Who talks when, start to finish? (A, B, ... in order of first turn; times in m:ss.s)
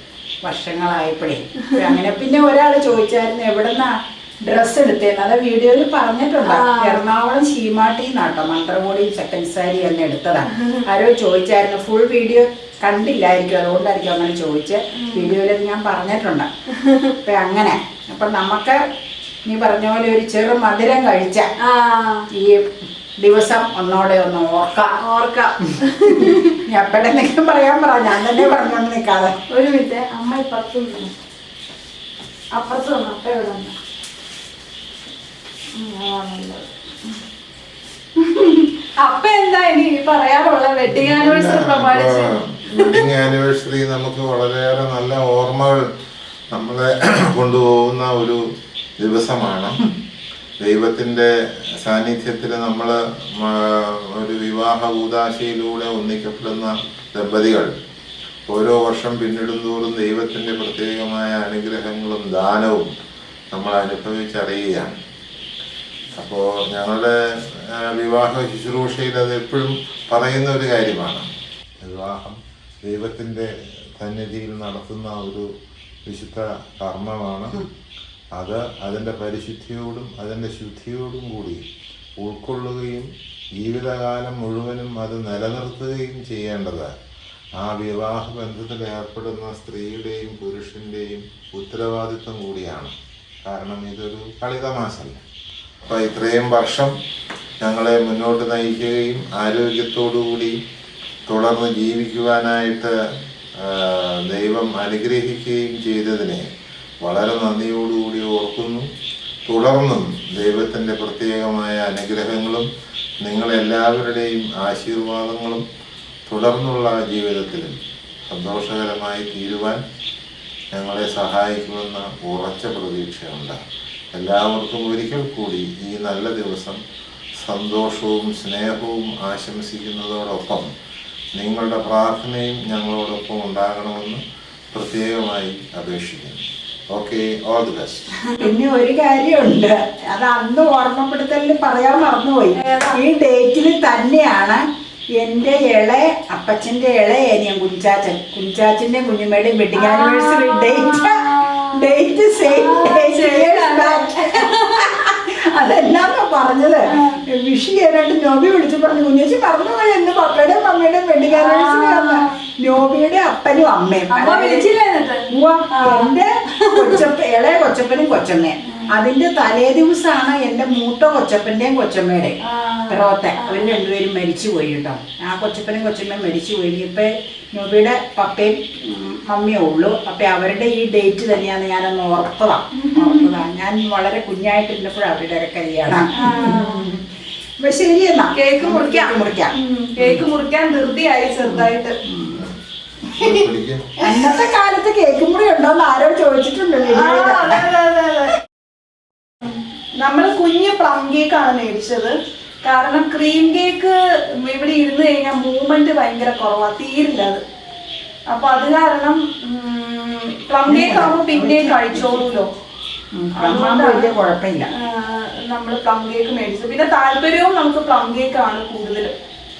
0:00.4-0:16.5 A
0:01.6-0:01.9 B
0:06.4-0:07.0 B
0:10.5-0:10.8 B
0:15.0-0:15.4 B
0:16.7-0:17.2 B
0:17.2-0:18.8 A
0:19.4-0:21.5 A
0:21.6-0:22.3 B
0:22.3-0:22.6 A
0:23.2-0:25.0 A
0:25.0-0:26.6 B
0:26.1-0:29.4 A
0:29.5-0:31.1 B
0:32.5-0:33.7 B
0:35.8-0:36.6 B
0:38.2-0:43.1 B
0:40.9-0:45.8 C
0:46.5-0:48.4 C
0:49.0-0:49.8 C
0:50.6-0:51.3 C
0:51.8-0:57.8 C
0:58.5-1:02.9 C
1:03.5-1:04.9 C
1:06.1-1:11.3 C
1:11.8-1:15.5 C
1:16.0-1:17.6 C
1:18.3-1:21.6 C
1:22.2-1:23.1 C
1:23.6-1:26.9 C
1:27.6-1:32.9 C
1:33.4-1:35.2 C
1:35.8-1:36.9 C
1:37.6-1:40.6 C
1:41.3-1:42.9 C
1:43.6-1:46.4 C
1:47.0-1:48.8 C
1:49.5-1:52.7 C
1:53.2-1:55.6 C
1:56.3-1:57.8 C
1:58.3-1:59.8 C
2:00.7-2:03.6 C
2:04.1-2:06.8 C
2:07.4-2:10.7 C
2:11.4-2:18.0 C
2:18.2-2:18.5 B
2:18.4-2:24.6 A
2:22.6-2:23.0 B
2:25.2-2:44.6 A
2:29.8-2:35.1 B
2:36.9-2:37.2 B
2:41.3-2:42.3 B
2:44.1-2:47.1 B
2:45.3-2:52.4 A
2:52.4-2:53.7 B
2:52.9-3:07.1 A
3:02.7-3:03.3 B
3:06.1-3:06.9 B
3:07.6-3:10.2 A
3:08.3-3:11.9 B
3:11.4-3:12.4 A
3:13.2-3:13.8 C
3:13.2-3:13.4 B
3:14.0-3:17.7 A
3:14.0-3:14.3 B
3:16.8-3:18.3 B
3:19.4-3:27.4 B
3:28.3-3:32.5 B
3:30.7-3:32.4 A
3:33.2-3:34.7 A
3:33.4-3:34.1 B
3:34.7-3:39.1 B